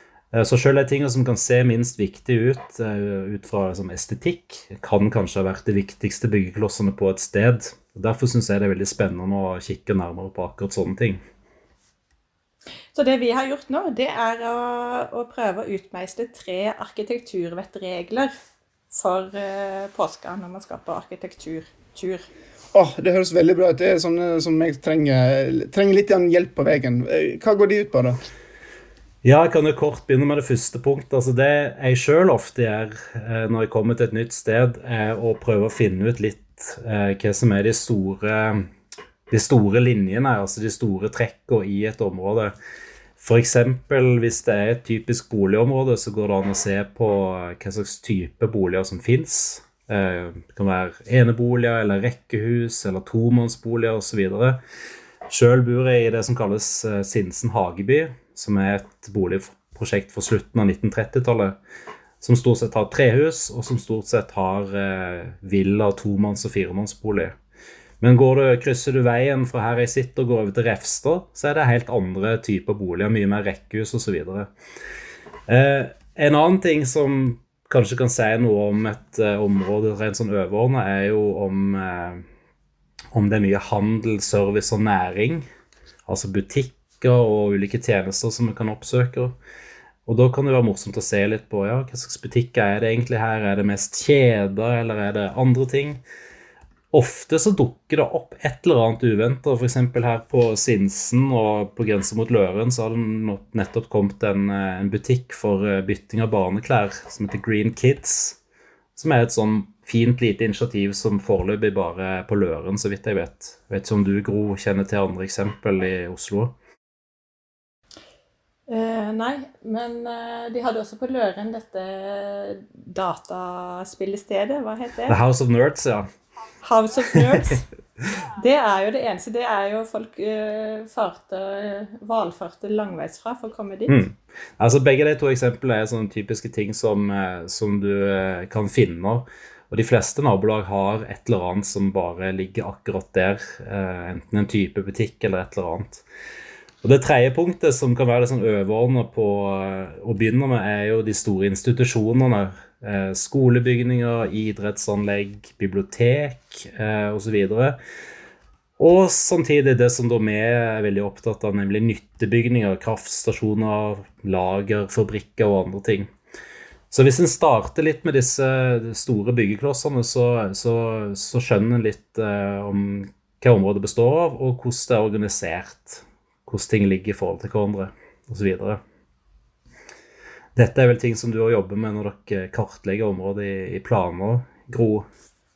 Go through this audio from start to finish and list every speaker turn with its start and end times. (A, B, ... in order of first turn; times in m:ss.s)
0:00.3-0:11.2 A
0:12.9-0:18.3 B
0:18.9-0:22.3 B
0:22.7-0:28.2 C
0:29.2-0:38.7 A
0:39.3-0:42.5 A
0:43.2-0:54.6 A
0:55.3-1:01.6 A
1:02.2-1:07.4 A
1:08.0-1:14.5 A
1:15.5-1:22.2 A
1:23.1-1:25.5 A
1:26.1-1:29.4 A
1:30.1-1:36.0 A
1:36.9-1:48.4 A
1:49.0-1:56.6 A
1:58.7-2:05.2 B
2:05.1-2:06.1 A
2:06.6-2:07.6 B
2:08.4-2:14.0 B
2:13.9-2:26.0 A
2:26.8-2:37.8 A
2:38.8-2:46.1 A
2:46.9-2:58.8 A
3:00.6-3:05.0 A